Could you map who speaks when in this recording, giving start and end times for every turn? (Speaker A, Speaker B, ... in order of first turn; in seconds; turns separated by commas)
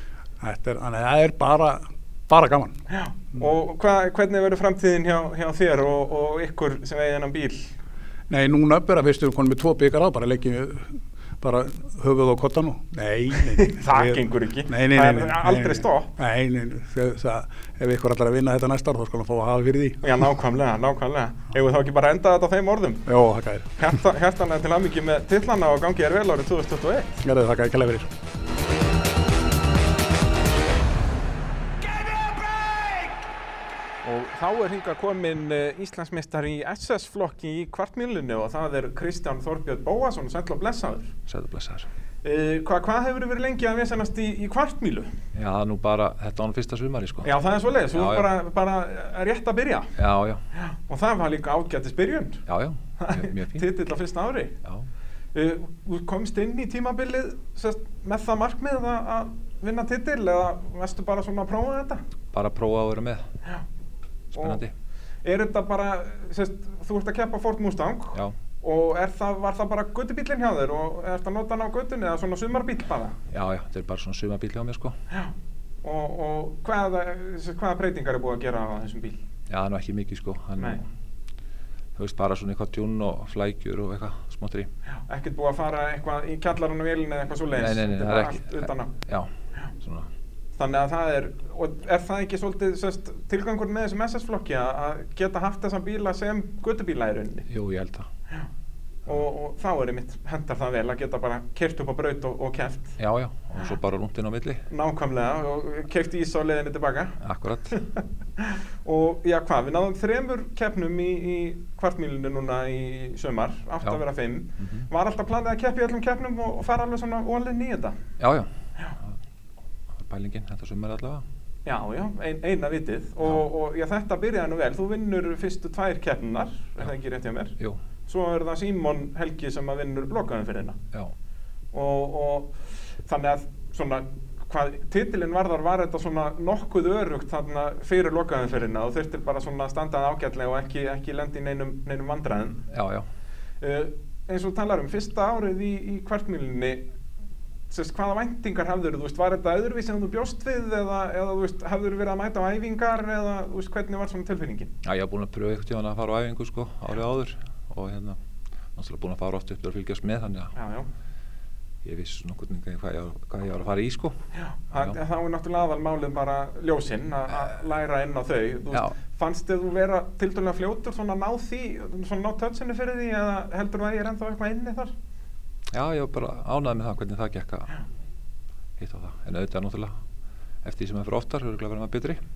Speaker A: 0.4-2.8, Speaker B: 2.9-7.7, Speaker A: 8.3-20.1, Speaker B: 13.5-16.1, Speaker B: 20.0-23.1, Speaker A: 23.1-23.8, Speaker B: 23.8-27.2, Speaker A: 27.2-28.1, Speaker B: 34.0-41.1, Speaker C: 41.3-41.9, Speaker B: 42.2-45.1, Speaker C: 45.4-47.3, Speaker B: 47.2-49.9, Speaker C: 47.9-48.3, Speaker C: 50.0-50.4, Speaker B: 50.6-52.4, Speaker C: 52.5-53.7, Speaker B: 53.0-54.6, Speaker B: 55.3-62.0, Speaker C: 62.3-63.3, Speaker C: 64.3-64.7, Speaker B: 64.3-64.6, Speaker B: 65.2-73.2, Speaker C: 73.3-75.0, Speaker B: 75.1-79.2, Speaker C: 79.5-80.8, Speaker C: 82.0-84.7, Speaker B: 85.1-88.9, Speaker C: 87.5-89.3, Speaker C: 89.8-90.1, Speaker B: 90.6-97.5, Speaker C: 97.5-98.1, Speaker B: 99.1-103.0, Speaker C: 103.0-104.6, Speaker B: 104.7-107.2, Speaker C: 107.2-107.8, Speaker B: 107.7-118.0, Speaker C: 114.6-114.9, Speaker C: 118.2-119.1, Speaker C: 120.0-121.2, Speaker B: 121.7-127.5, Speaker B: 128.1-130.8, Speaker B: 131.7-142.6, Speaker C: 142.7-143.1, Speaker B: 143.6-146.8, Speaker B: 147.7-154.7, Speaker C: 154.8-158.2, Speaker C: 158.8-160.5, Speaker B: 160.6-160.9, Speaker C: 161.8-164.1, Speaker B: 164.3-174.9, Speaker C: 175.7-177.8, Speaker C: 178.8-179.9, Speaker C: 180.6-182.2